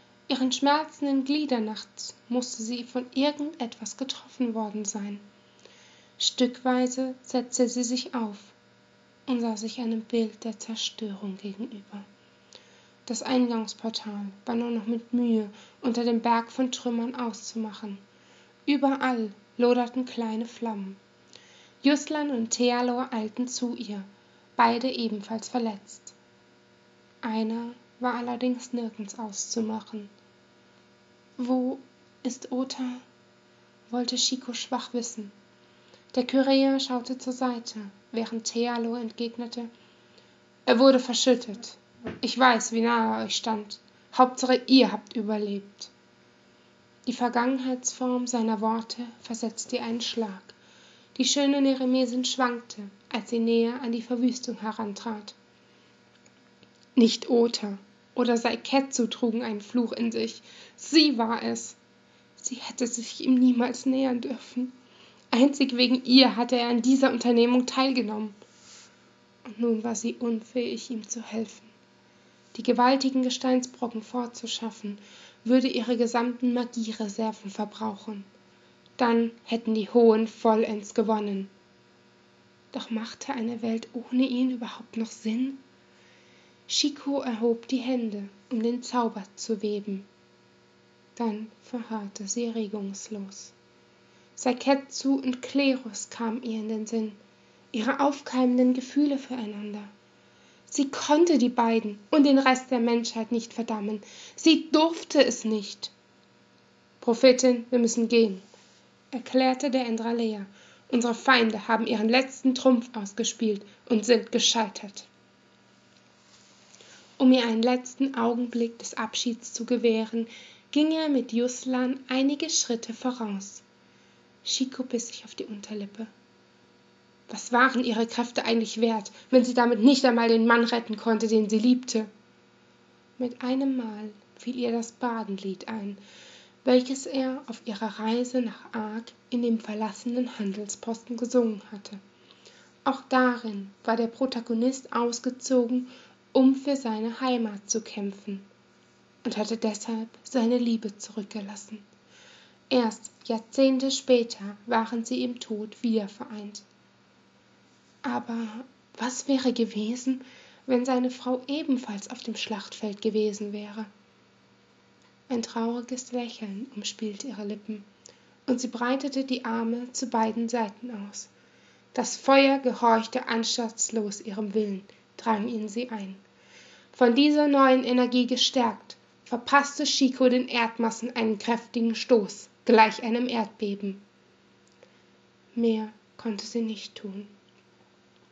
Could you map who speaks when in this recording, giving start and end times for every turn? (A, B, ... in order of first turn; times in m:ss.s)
0:00.3-0:05.2 A
0:06.2-0:08.6 A
0:09.3-0:12.1 A
0:13.1-0:18.0 A
0:18.7-0:21.0 A
0:21.8-0:26.2 A
0:27.2-0:30.1 A
0:31.4-0:33.0 A
0:33.9-0:35.3 A
0:36.1-0:39.7 A
0:40.7-0:45.9 A
0:47.1-0:50.6 A
0:51.2-0:55.4 A
0:57.0-1:01.8 A
1:02.4-1:04.8 A
1:05.3-1:08.4 A
1:09.4-1:11.7 A
1:12.5-1:18.3 A
1:19.0-1:21.5 A
1:22.7-1:25.6 A
1:26.7-1:30.1 A
1:31.2-1:33.5 A
1:34.4-1:37.2 A
1:37.7-1:39.9 A
1:40.7-1:45.9 A
1:47.0-1:48.4 A
1:49.1-1:55.1 A
1:57.2-2:03.6 A
2:04.4-2:06.1 A
2:07.3-2:12.1 A
2:13.2-2:16.0 A
2:16.6-2:22.0 A
2:22.8-2:28.5 A
2:29.2-2:31.9 A
2:32.7-2:36.6 A
2:38.0-2:43.9 A
2:45.3-2:47.9 A
2:48.5-2:51.3 A
2:51.9-2:56.2 A
2:56.9-3:04.0 A
3:05.5-3:07.3 A